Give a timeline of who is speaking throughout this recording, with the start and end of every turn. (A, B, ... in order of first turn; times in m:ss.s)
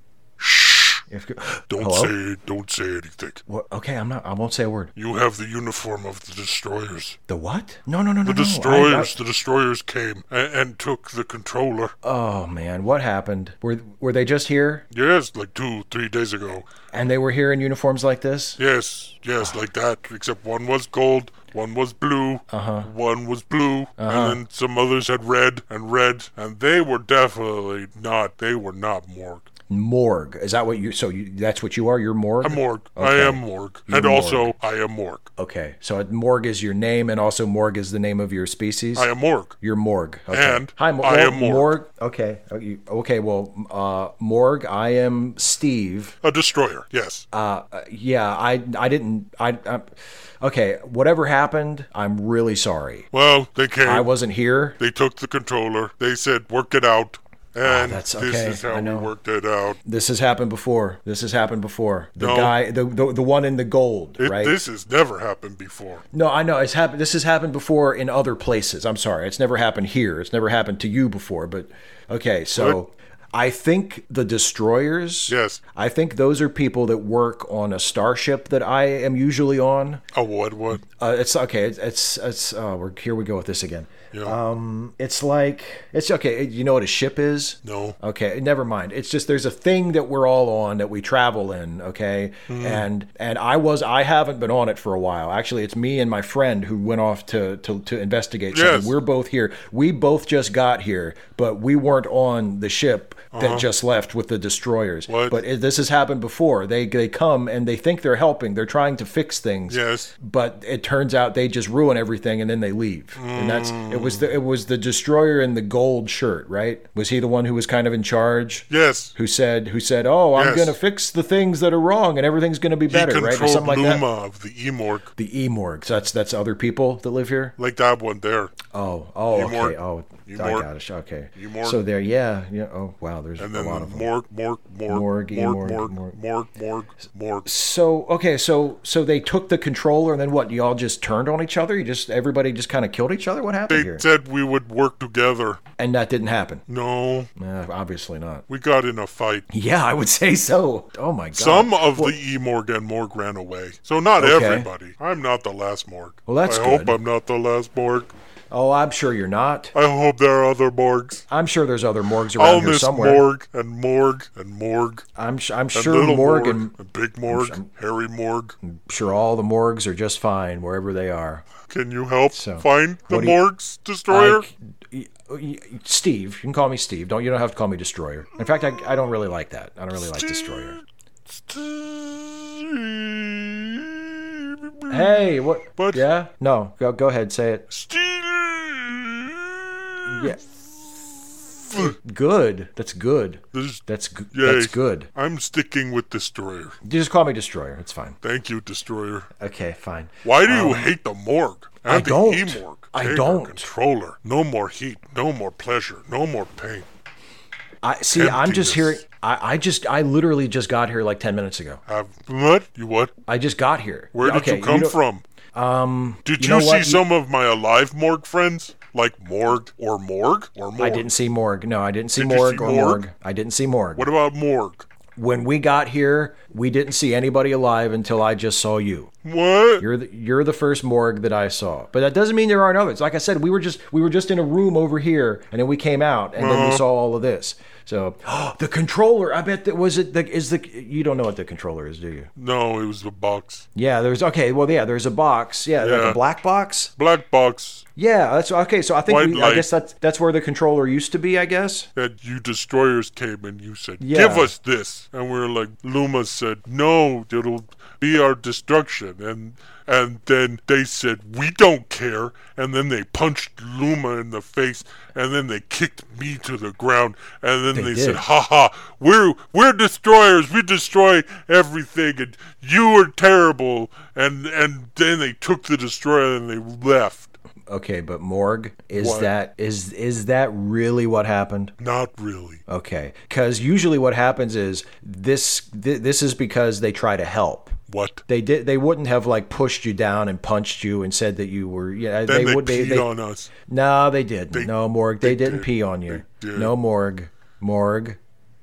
0:00.4-0:01.0 A
0:01.1-0:02.1 B
0:01.7-0:03.4 A
0:03.5-0:04.9 B
0:05.0-0:07.2 A
0:07.3-0:09.1 B
0:08.2-0:11.9 A
0:12.0-0:14.9 B
0:14.9-0:16.6 A
0:16.9-0:18.6 B
0:18.6-0:29.4 A
0:22.5-0:22.9 B
0:24.0-0:24.4 B
0:29.7-0:34.5 B
0:32.4-0:35.3 A
0:35.4-0:46.2 B
0:38.9-0:39.5 A
0:40.3-0:41.7 A
0:46.2-0:47.2 A
0:47.3-0:53.1 B
0:53.1-0:54.1 A
0:53.8-0:54.8 B
0:54.8-0:59.8 A
0:57.6-0:59.1 B
0:59.8-1:04.6 B
1:02.2-1:02.5 A
1:04.2-1:06.0 A
1:06.1-1:20.0 B
1:15.3-1:15.6 A
1:20.1-1:20.8 A
1:20.8-2:04.0 B
1:24.1-1:24.4 A
1:27.6-1:28.0 A
1:32.5-1:32.8 A
1:38.5-1:38.9 A
1:43.3-1:43.6 A
1:45.1-1:45.4 A
1:49.7-1:50.1 A
1:53.2-1:54.3 A
1:58.7-1:59.1 A
2:00.4-2:00.7 A
2:02.9-2:05.1 A
2:05.2-2:07.6 B
2:07.6-2:08.6 A
2:08.7-2:14.1 B
2:09.3-2:09.7 A
2:10.2-2:10.7 A
2:11.4-2:11.8 A
2:13.4-2:17.5 A
2:14.9-2:16.2 B
2:17.4-2:24.0 B
2:23.7-2:25.6 A
2:25.8-2:26.6 B
2:26.7-2:27.3 A
2:27.4-2:28.4 B
2:28.5-2:29.4 A
2:29.5-2:32.2 B
2:31.4-2:38.1 A
2:34.2-2:34.7 B
2:36.2-2:37.0 B
2:38.5-2:39.7 B
2:39.7-2:41.2 A
2:41.3-2:43.2 B
2:42.4-2:45.1 A
2:45.2-2:46.7 B
2:45.7-2:48.6 A
2:47.3-2:47.7 B
2:48.6-2:51.4 B
2:51.7-2:54.4 A
2:52.3-2:53.4 B
2:54.1-3:00.8 B
3:00.0-3:05.1 A
3:04.9-3:07.6 B
3:05.8-3:06.0 A
3:07.7-3:11.9 A
3:10.1-3:10.4 B
3:11.7-3:15.1 B
3:13.5-3:16.8 A
3:16.8-3:18.2 B
3:18.2-3:19.3 A
3:19.4-3:20.9 B
3:20.2-3:26.9 A
3:21.9-3:23.7 B
3:27.8-3:31.8 B
3:28.1-3:29.0 A
3:31.9-3:33.1 A
3:33.3-3:35.0 B
3:34.1-3:35.2 A
3:35.5-3:37.0 B
3:36.2-3:41.1 A
3:40.8-3:44.1 B
3:42.2-3:43.0 A
3:43.9-3:44.9 A
3:45.2-3:49.1 B
3:49.2-3:49.8 A
3:49.8-4:02.3 B
3:56.4-3:56.8 A
4:02.4-4:03.6 A
4:03.7-4:06.9 B
4:05.8-4:06.2 A
4:07.0-4:07.8 A
4:08.0-4:11.9 B
4:09.1-4:09.7 A
4:12.0-4:37.4 A
4:14.0-4:14.5 B
4:27.7-4:28.2 B
4:37.7-4:41.7 B
4:38.9-4:39.3 A
4:41.8-4:42.6 A
4:42.7-4:53.1 B
4:47.9-4:48.2 A
4:52.2-4:53.5 A
4:53.7-4:58.2 B
4:54.5-4:56.7 A